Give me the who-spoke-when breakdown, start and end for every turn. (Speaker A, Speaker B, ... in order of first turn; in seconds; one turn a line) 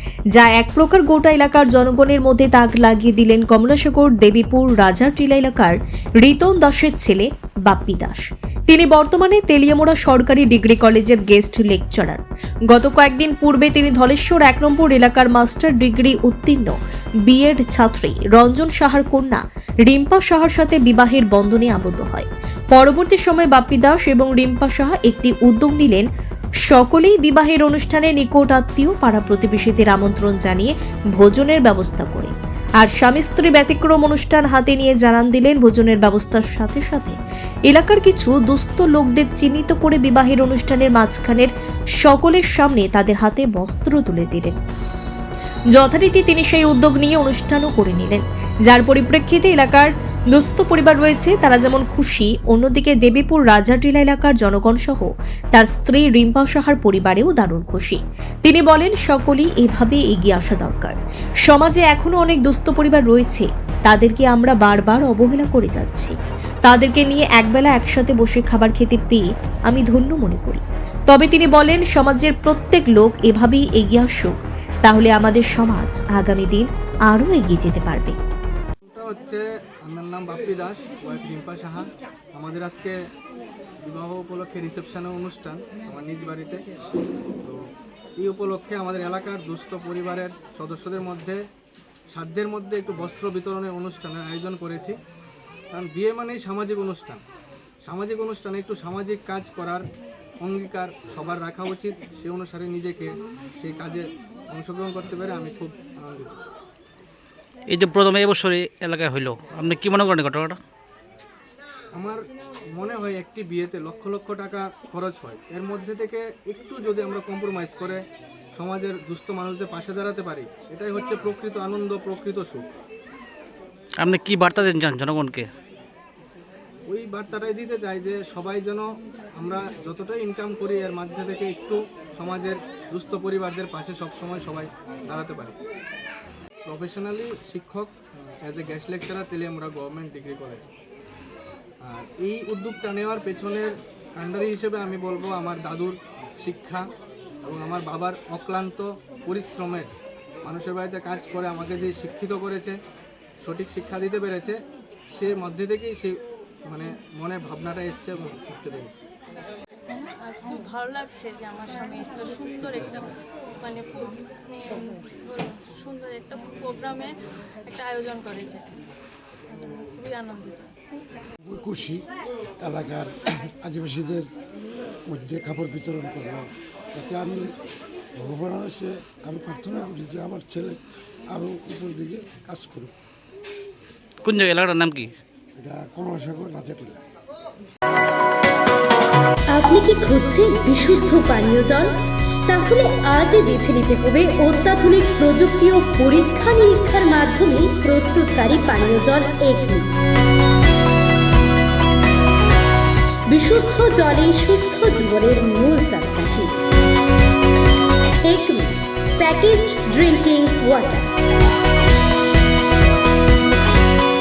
Speaker A: 0.3-26.1
Speaker A: 26.7-37.1
Speaker A: 37.7-44.6
Speaker A: 45.7-61.0
Speaker A: 61.5-66.2
Speaker A: 66.7-78.2
Speaker B: 78.9-82.9
Speaker B: 83.8-86.6
Speaker B: 88.2-91.4
Speaker B: 92.1-95.0
Speaker B: 95.7-97.2
Speaker B: 97.8-99.9
Speaker B: 100.4-106.4
Speaker C: 107.7-110.6
Speaker B: 111.9-112.2
Speaker B: 112.7-118.0
Speaker B: 118.5-122.7
Speaker C: 124.0-125.5
Speaker B: 126.9-128.8
Speaker B: 129.4-135.5
Speaker B: 136.7-140.7
Speaker B: 141.8-146.8
Speaker B: 147.4-149.9
Speaker B: 150.4-152.7
Speaker B: 153.4-154.5
Speaker B: 155.1-159.0
Speaker D: 159.9-163.1
Speaker D: 163.6-167.1
Speaker D: 167.7-168.6
Speaker D: 169.6-170.7
Speaker E: 171.4-172.0
Speaker E: 172.6-174.2
Speaker E: 175.1-177.4
Speaker E: 178.2-180.8
Speaker E: 181.3-182.9
Speaker C: 184.2-185.1
Speaker E: 185.6-187.0
Speaker F: 189.5-199.9
Speaker F: 203.3-206.6
Speaker F: 208.2-211.1